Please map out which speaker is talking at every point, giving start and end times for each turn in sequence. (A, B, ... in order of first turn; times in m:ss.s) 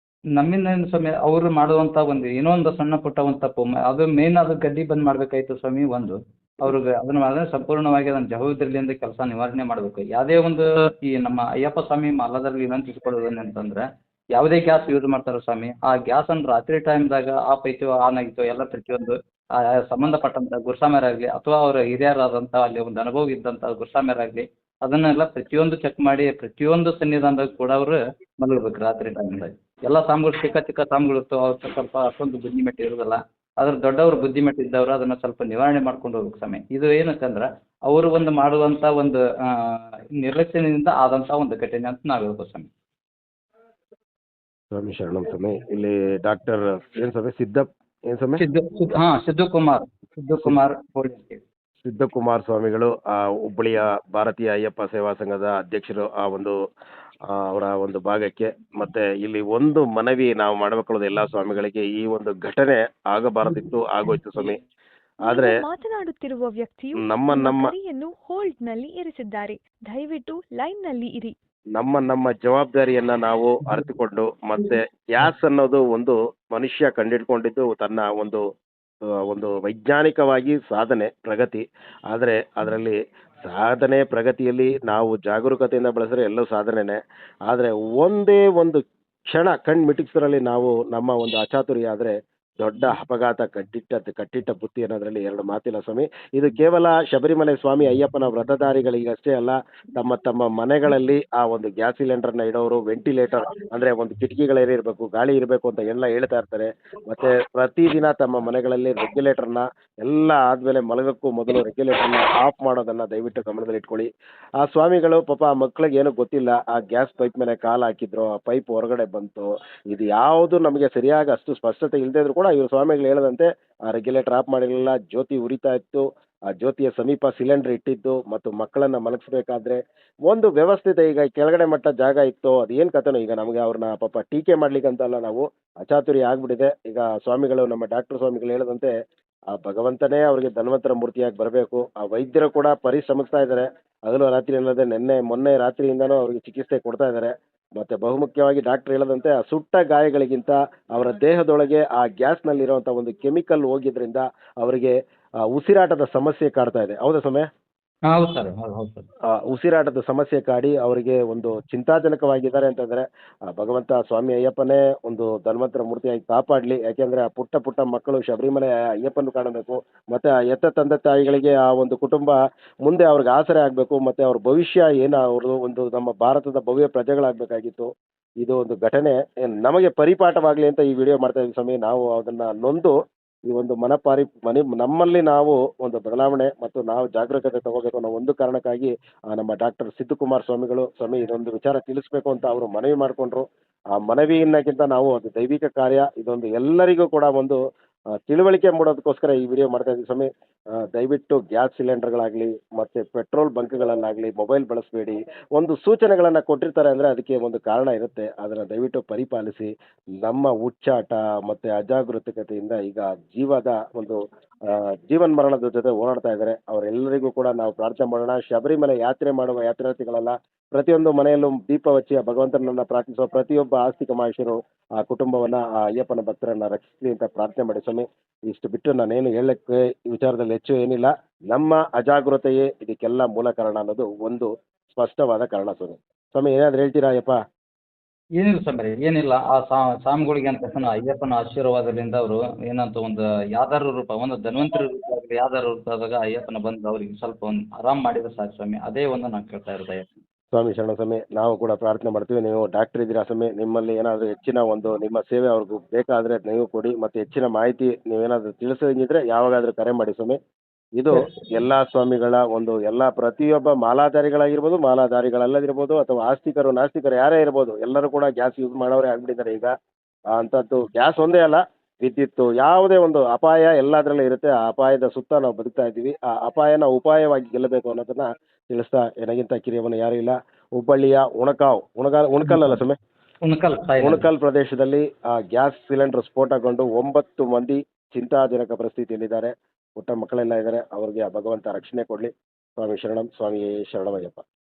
0:00.3-0:42.7 A
0:44.7-0:48.4 B
0:48.4-0:51.4 A
0:51.8-0:56.5 B
0:57.3-1:04.6 B
1:05.2-1:11.3 C
1:05.2-1:05.5 B
1:07.0-1:07.7 B
1:11.7-1:18.4 B
1:19.3-1:54.1 B
1:54.6-2:18.9 B
2:19.5-2:34.9 B
2:35.5-2:37.5 B
2:38.1-2:39.1 A
2:39.3-2:57.9 B
2:58.4-3:02.9 B
3:03.5-3:13.4 B
3:14.0-3:17.6 B
3:18.2-3:20.3 B
3:20.8-3:29.7 B
3:30.2-3:57.4 B
3:58.4-4:10.1 A
4:10.5-4:20.4 B
4:21.0-4:29.7 B
4:21.1-4:21.5 A
4:30.3-4:43.0 B
4:42.4-4:42.8 A
4:43.4-4:44.3 A
4:44.0-4:54.4 B